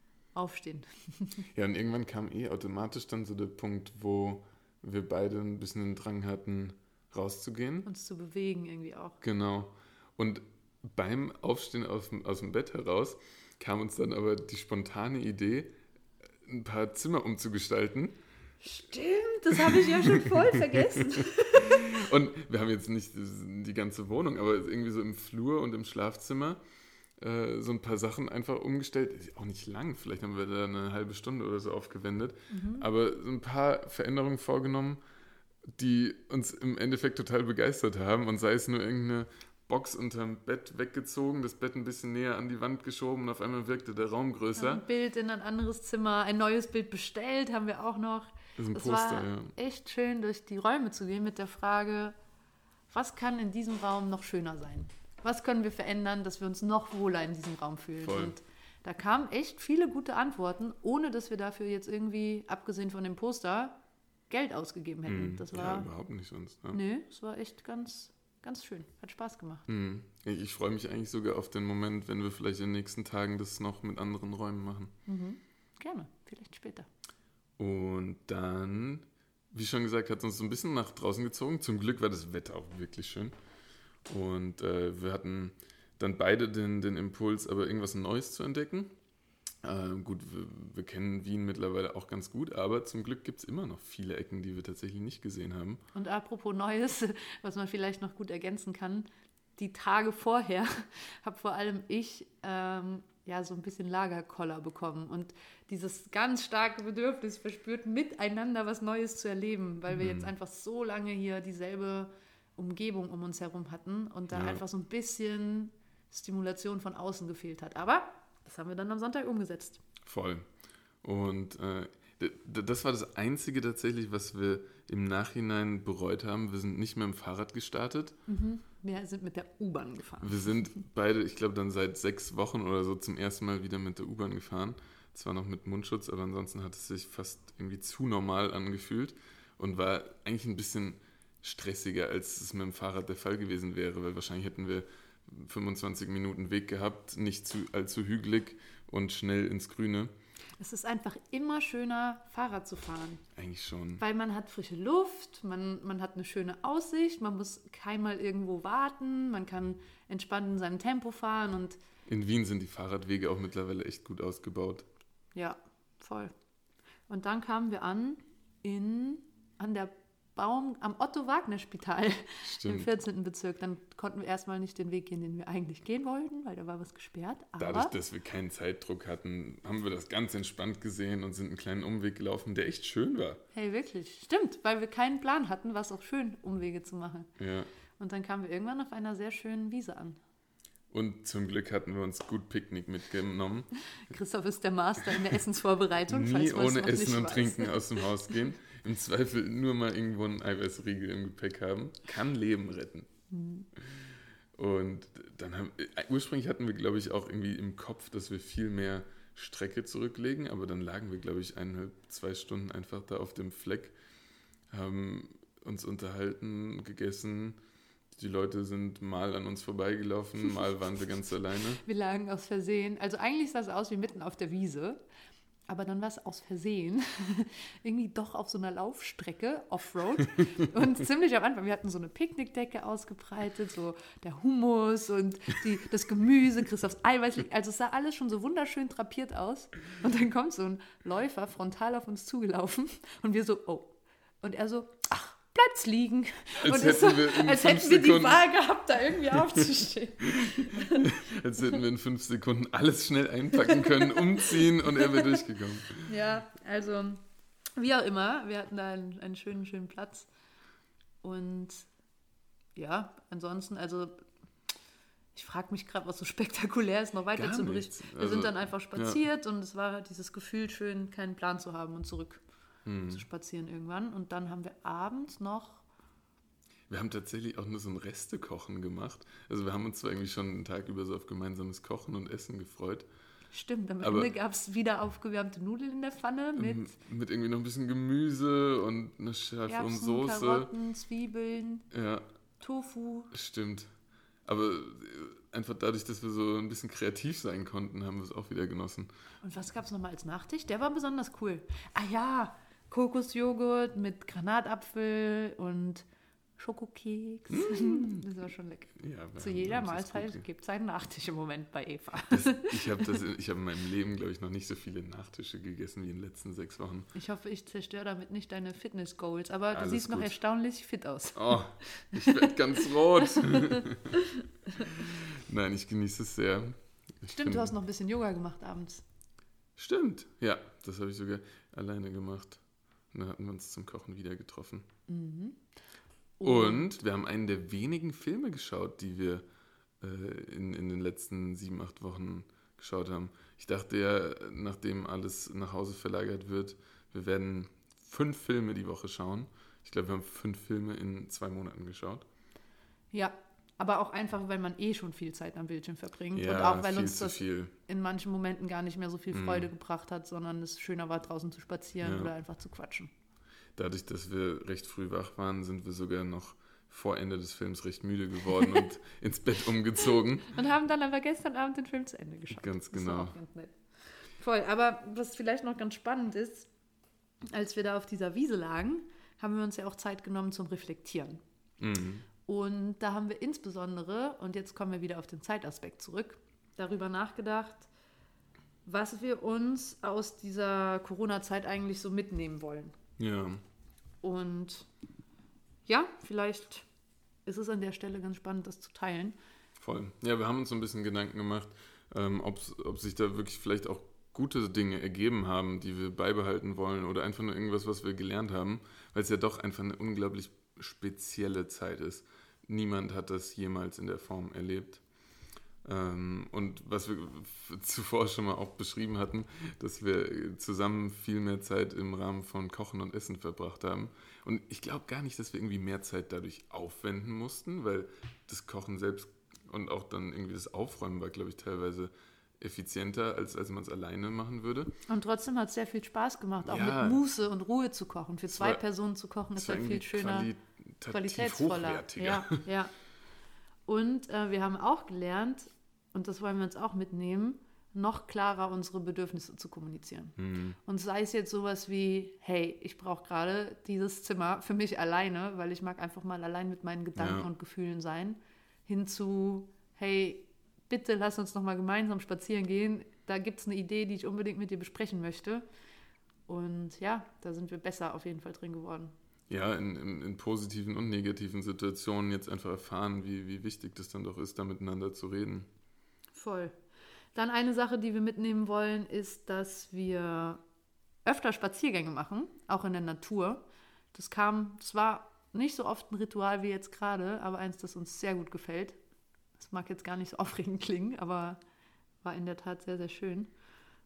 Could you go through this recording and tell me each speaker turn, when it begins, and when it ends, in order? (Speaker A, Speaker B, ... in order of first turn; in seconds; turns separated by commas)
Speaker A: 0.3-1.4, Speaker B: 1.5-7.9, Speaker A: 7.8-9.2, Speaker B: 9.2-15.7, Speaker B: 16.4-18.2, Speaker A: 18.6-22.0, Speaker B: 19.6-26.6, Speaker B: 27.2-35.0, Speaker A: 32.5-32.9, Speaker B: 35.8-44.8, Speaker A: 44.5-52.1, Speaker B: 48.6-49.5, Speaker A: 52.9-63.8, Speaker B: 58.0-58.4, Speaker A: 64.3-65.9, Speaker B: 65.1-66.8, Speaker A: 66.7-69.7, Speaker B: 69.7-74.9, Speaker A: 75.1-76.9, Speaker B: 77.6-83.3, Speaker B: 84.1-88.9, Speaker B: 89.6-95.8, Speaker A: 95.9-119.8, Speaker B: 109.9-110.3, Speaker B: 114.3-114.6, Speaker B: 120.0-120.4, Speaker B: 121.0-128.2, Speaker A: 128.3-130.6, Speaker B: 130.2-150.1, Speaker A: 150.6-153.2, Speaker B: 153.3-154.0, Speaker A: 154.0-161.8, Speaker B: 162.1-164.9, Speaker A: 165.3-166.3, Speaker A: 167.1-177.9, Speaker B: 172.4-172.9, Speaker B: 177.6-183.4, Speaker A: 183.5-187.3, Speaker B: 187.4-187.7, Speaker A: 188.0-190.2, Speaker B: 190.9-193.7, Speaker A: 193.9-198.4, Speaker B: 196.1-203.1, Speaker A: 203.3-203.7, Speaker B: 203.8-213.9, Speaker B: 214.7-217.6, Speaker B: 218.1-221.8, Speaker A: 221.8-225.0, Speaker A: 225.7-251.1, Speaker B: 246.6-248.4, Speaker B: 250.4-256.1, Speaker A: 253.6-255.4, Speaker A: 256.0-257.2, Speaker A: 257.8-260.3, Speaker A: 261.2-261.9, Speaker A: 262.8-264.2, Speaker A: 265.3-272.4, Speaker B: 267.3-269.2, Speaker B: 272.8-273.2, Speaker A: 273.1-275.8, Speaker B: 276.9-283.1, Speaker A: 283.5-286.9, Speaker B: 284.0-284.3, Speaker B: 286.6-290.7, Speaker A: 289.7-291.9, Speaker B: 291.9-292.2, Speaker A: 292.6-293.3, Speaker B: 293.3-293.9, Speaker B: 294.4-299.1, Speaker A: 299.4-306.1, Speaker A: 306.6-313.2, Speaker B: 307.5-308.2, Speaker B: 308.9-310.4, Speaker B: 312.3-317.1, Speaker A: 317.1-324.9, Speaker B: 319.7-320.3, Speaker B: 321.3-324.1, Speaker B: 324.8-327.7, Speaker A: 327.2-329.0, Speaker B: 329.8-334.9, Speaker A: 335.1-335.6, Speaker A: 336.4-337.0, Speaker B: 336.4-339.4, Speaker B: 340.0-352.2, Speaker A: 353.1-363.1, Speaker B: 356.3-357.7, Speaker B: 359.3-359.7, Speaker B: 362.0-362.3, Speaker B: 363.7-370.6, Speaker A: 370.5-376.7, Speaker B: 372.5-373.4, Speaker A: 377.5-381.4, Speaker B: 381.8-382.3, Speaker A: 382.4-387.9, Speaker A: 388.9-392.9, Speaker B: 393.2-393.6, Speaker A: 394.2-394.9, Speaker A: 395.9-396.8, Speaker A: 397.4-399.4, Speaker B: 399.8-415.0, Speaker B: 415.8-434.9, Speaker A: 435.1-440.5, Speaker B: 436.6-437.2, Speaker B: 438.5-438.8, Speaker B: 439.6-442.6, Speaker A: 441.1-442.9, Speaker A: 443.9-465.6, Speaker B: 450.4-450.8, Speaker B: 457.2-457.5, Speaker A: 466.5-469.1, Speaker B: 469.5-475.7, Speaker A: 476.3-476.8, Speaker A: 477.3-480.6, Speaker A: 481.2-489.0, Speaker A: 489.6-491.6, Speaker A: 492.2-493.5